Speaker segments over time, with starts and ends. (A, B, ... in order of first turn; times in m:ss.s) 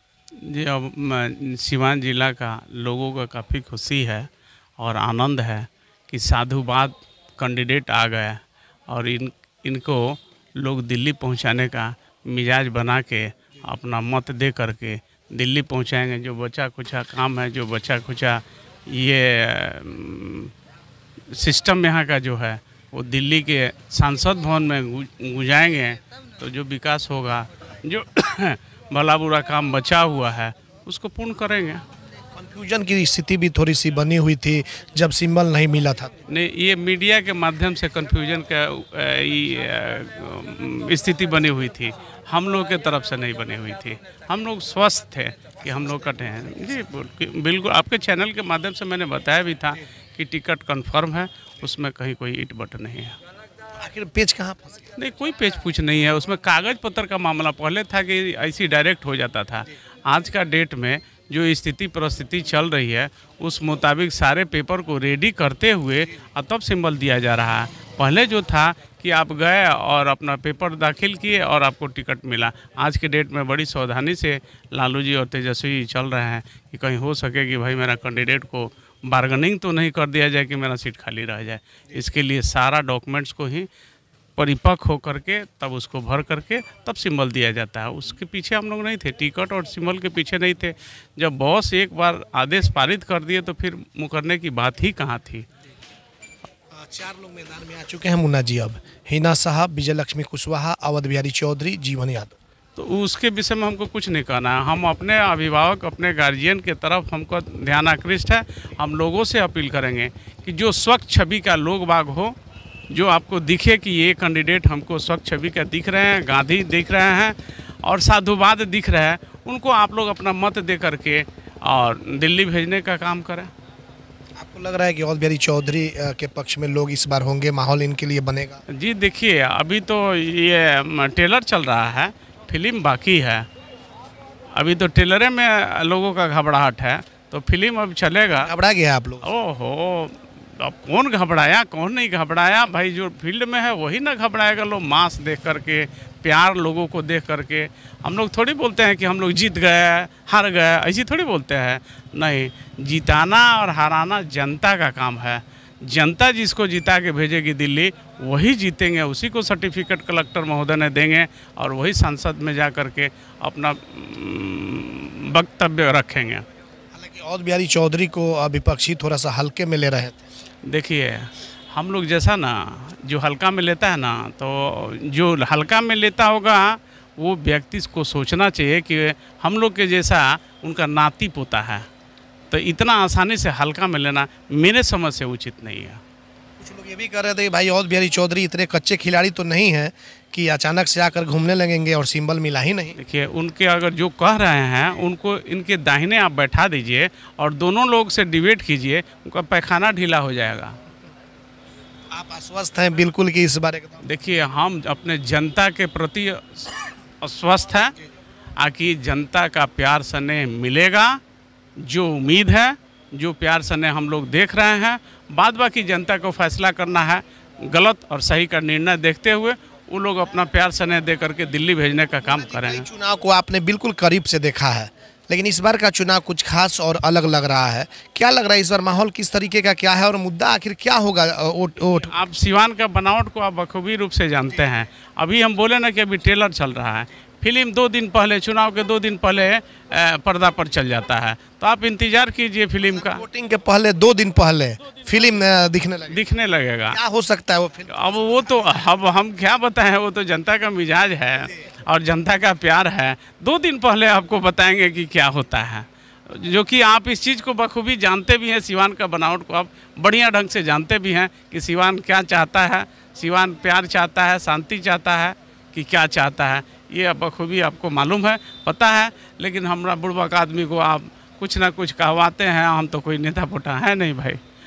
0:00.4-0:20.5 A
0:21.3-0:31.8 A
0:32.3-0:36.1 B
0:36.3-0:53.2 A
0:45.6-0:46.5 B
0:53.8-0:54.9 B
0:55.0-1:23.7 A
1:24.4-1:35.5 A
1:36.7-1:42.4 B
1:42.8-1:52.4 A
1:52.9-2:03.5 A
2:04.4-2:08.6 B
2:08.7-2:13.5 A
2:14.5-2:18.5 A
2:18.4-2:19.3 B
2:19.2-2:46.4 A
2:46.9-2:50.2 B
2:50.7-3:01.8 A
3:02.5-3:06.0 A
3:06.6-3:13.0 B
3:13.0-3:20.8 A
3:22.1-3:24.0 B
3:24.0-3:27.9 A
3:28.6-3:31.2 A
3:31.8-3:42.8 A
3:42.2-3:52.1 B
3:52.1-4:03.2 A
4:02.8-4:06.2 B
4:06.1-4:07.0 A
4:06.9-4:09.0 B
4:07.9-4:34.4 A